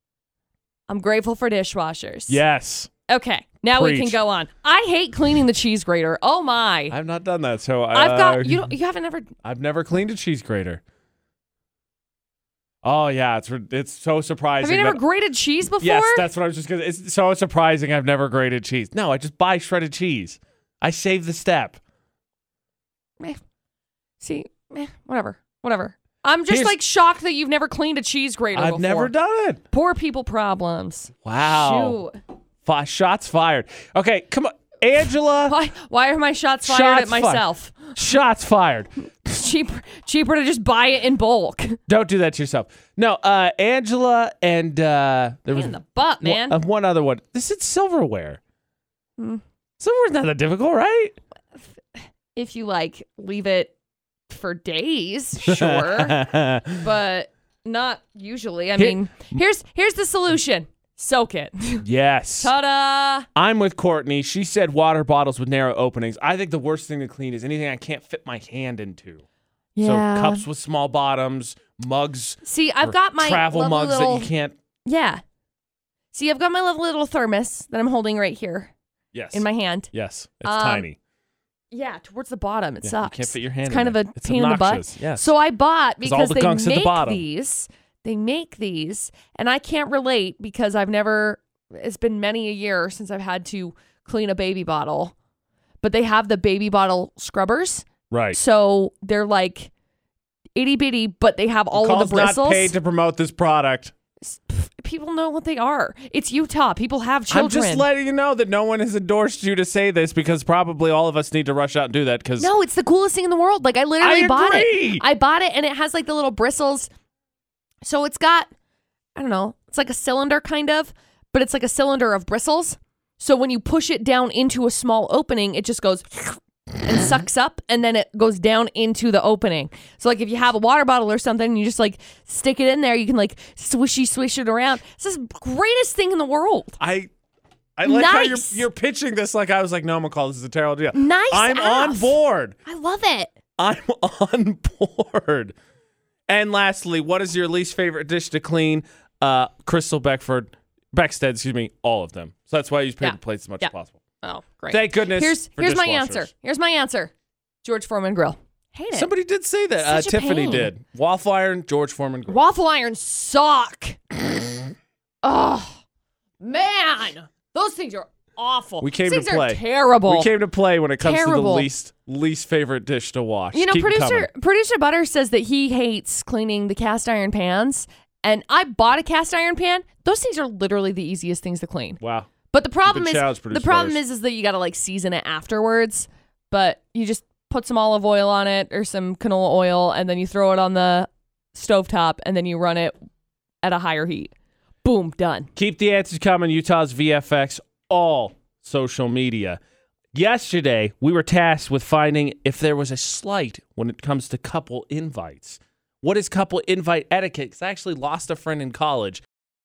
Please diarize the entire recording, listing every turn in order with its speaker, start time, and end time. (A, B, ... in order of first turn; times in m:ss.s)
0:00.9-0:02.4 A
0:02.3-0:02.9 B
0:03.1-0:07.0 A
0:03.7-0:04.2 B
0:06.9-0:08.6 B
0:07.9-0:09.3 A
0:09.4-0:10.8 B
0:12.8-0:15.0 B
0:14.6-0:16.3 A
0:15.8-0:21.8 B
0:24.2-0:29.1 A
0:26.5-0:26.8 B
0:28.5-0:29.6 B
0:29.7-0:32.2 A
0:31.2-0:32.0 B
0:32.6-0:35.6 B
0:35.5-0:38.0 A
0:36.6-0:38.9 B
0:39.2-0:41.8 A
0:41.9-0:48.4 B
0:45.5-0:46.6 A
0:49.2-0:49.4 A
0:49.8-0:51.2 B
0:51.6-0:53.7 A
0:54.3-0:56.1 A
0:55.4-0:56.8 B
0:56.8-1:01.9 A
0:58.8-0:59.4 B
1:01.8-1:02.5 B
1:02.4-1:03.3 A
1:03.4-1:09.2 B
1:09.8-1:10.4 A
1:09.8-1:14.6 B
1:12.4-1:14.3 A
1:14.8-1:15.2 A
1:16.1-1:18.7 A
1:19.1-1:21.0 B
1:19.3-1:19.9 A
1:20.4-1:20.9 A
1:21.7-1:35.1 A
1:22.8-1:25.3 B
1:26.0-1:27.2 B
1:35.8-1:39.7 A
1:38.1-1:38.4 B
1:40.6-1:42.7 A
1:41.7-1:43.9 B
1:44.2-1:47.9 A
1:47.3-1:52.5 B
1:52.4-1:56.9 A
1:54.0-1:55.0 B
1:57.8-1:58.5 A
1:59.2-2:16.8 A
2:16.8-2:17.1 B
2:17.8-2:22.6 B
2:17.8-2:18.6 A
2:20.9-2:23.3 A
2:23.6-2:25.6 B
2:26.3-2:34.0 B
2:33.0-2:37.1 A
2:34.7-2:36.3 B
2:37.6-2:39.1 A
2:38.9-2:42.4 B
2:39.8-2:40.7 A
2:42.3-2:44.0 A
2:45.2-2:45.8 A
2:46.4-2:50.3 A
2:48.8-2:54.3 B
2:51.0-2:51.7 A
2:53.5-3:02.0 A
3:02.0-3:02.3 B
3:02.5-3:13.0 A
3:02.9-3:04.0 B
3:13.6-3:14.3 A
3:14.8-3:15.5 A
3:15.6-3:19.6 B
3:20.1-3:29.2 B